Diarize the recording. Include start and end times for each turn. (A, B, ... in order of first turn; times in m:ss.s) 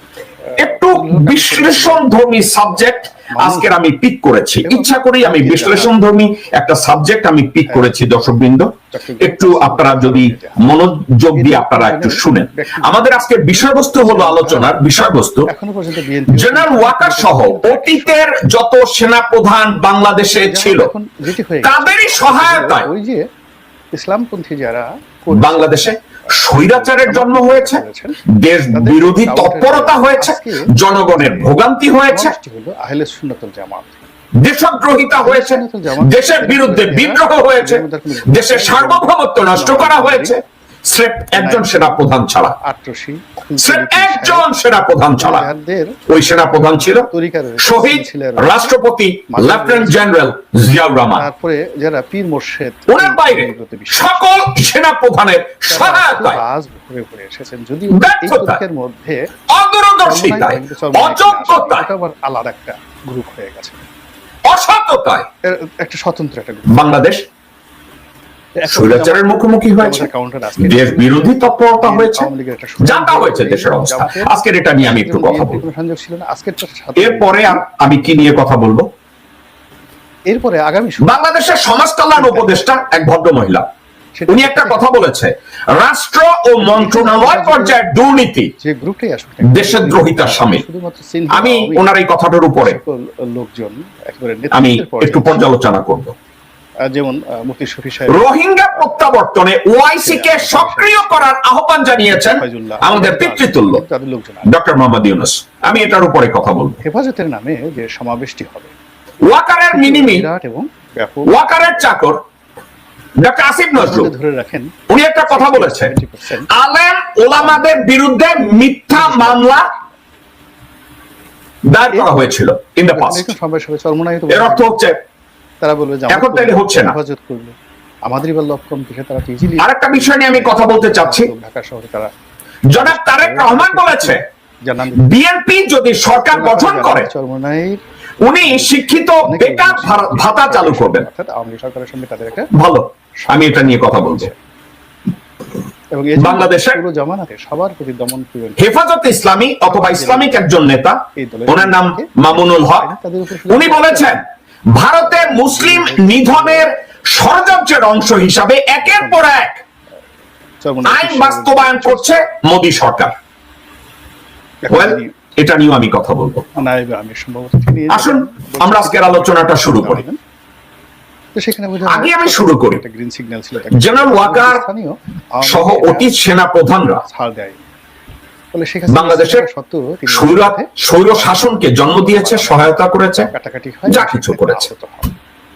0:00.6-0:02.1 A
0:00.6-0:15.5 B
0:03.4-0:03.8 A
0:04.6-0:05.9 A
0:07.6-0:07.9 A
0:08.9-0:10.7 A
0:11.3-0:13.1 A
0:13.7-0:14.7 A
0:15.5-0:18.2 A
0:16.3-0:20.9 B
0:20.4-0:23.3 A
0:21.6-0:22.9 B
0:23.9-0:25.8 A
0:25.3-0:27.8 B
0:26.5-0:28.2 A
0:28.3-0:32.3 B
0:28.7-0:31.5 A
0:32.1-0:34.0 A
0:34.4-0:42.6 B
0:35.2-0:40.4 A
0:41.3-0:42.0 A
0:42.6-0:44.5 A
0:43.6-0:45.4 B
0:45.2-0:46.0 A
0:46.1-0:47.1 B
0:47.1-0:48.7 A
0:47.6-0:51.2 B
0:49.3-0:50.0 A
0:51.1-0:54.4 A
0:52.9-0:56.4 B
0:55.7-0:59.3 A
0:57.9-0:58.6 B
0:59.5-1:01.8 B
1:00.0-1:03.8 A
1:04.5-1:05.2 B
1:05.4-1:06.9 A
1:06.7-1:07.2 B
1:08.6-1:17.6 A
1:08.7-1:12.3 B
1:12.8-1:15.6 B
1:17.0-1:18.9 B
1:20.3-1:21.3 A
1:21.0-1:23.6 B
1:22.1-1:22.8 A
1:24.2-1:24.9 A
1:24.3-1:28.5 B
1:26.6-1:27.8 A
1:28.6-1:31.9 A
1:29.4-1:30.6 B
1:31.3-1:32.8 B
1:32.6-1:35.5 A
1:34.5-1:36.1 B
1:36.8-1:39.0 A
1:38.1-1:43.8 B
1:40.0-1:41.3 A
1:42.1-1:44.5 A
1:44.4-1:46.8 B
1:46.8-1:48.7 A
1:49.2-1:50.3 B
1:49.7-1:51.6 A
1:51.2-1:52.2 B
1:53.2-1:54.1 B
1:53.8-1:54.7 A
1:54.9-1:55.9 B
1:55.3-1:56.5 A
1:56.5-1:59.7 B
1:57.4-1:57.7 A
1:58.9-1:59.8 A
2:01.7-2:03.3 B
2:02.9-2:04.8 A
2:04.3-2:05.0 B
2:05.6-2:07.5 A
2:06.1-2:06.9 B
2:08.0-2:12.1 A
2:09.6-2:11.3 B
2:12.7-2:14.2 B
2:12.7-2:15.0 A
2:14.9-2:17.1 B
2:16.2-2:17.8 A
2:18.2-2:21.0 B
2:18.4-2:22.5 A
2:22.5-2:24.3 B
2:23.2-2:24.3 A
2:25.9-2:28.7 A
2:26.2-2:26.8 B
2:28.6-2:32.9 B
2:29.6-2:30.3 A
2:31.2-2:34.1 A
2:33.5-2:34.2 B
2:34.7-2:39.6 B
2:35.0-2:36.7 A
2:38.8-2:39.3 A
2:40.6-2:42.2 A
2:40.8-2:43.1 B
2:44.6-2:45.1 A
2:44.7-2:46.5 B
2:46.6-2:50.2 A
2:47.9-2:50.0 B
2:51.3-2:56.1 A
2:51.8-2:52.8 B
2:53.7-2:54.6 B
2:55.4-2:57.0 B
2:57.0-2:57.6 A
2:58.5-3:02.7 A
2:58.9-2:59.4 B
3:00.1-3:03.3 B
3:03.3-3:05.1 A
3:03.9-3:04.7 B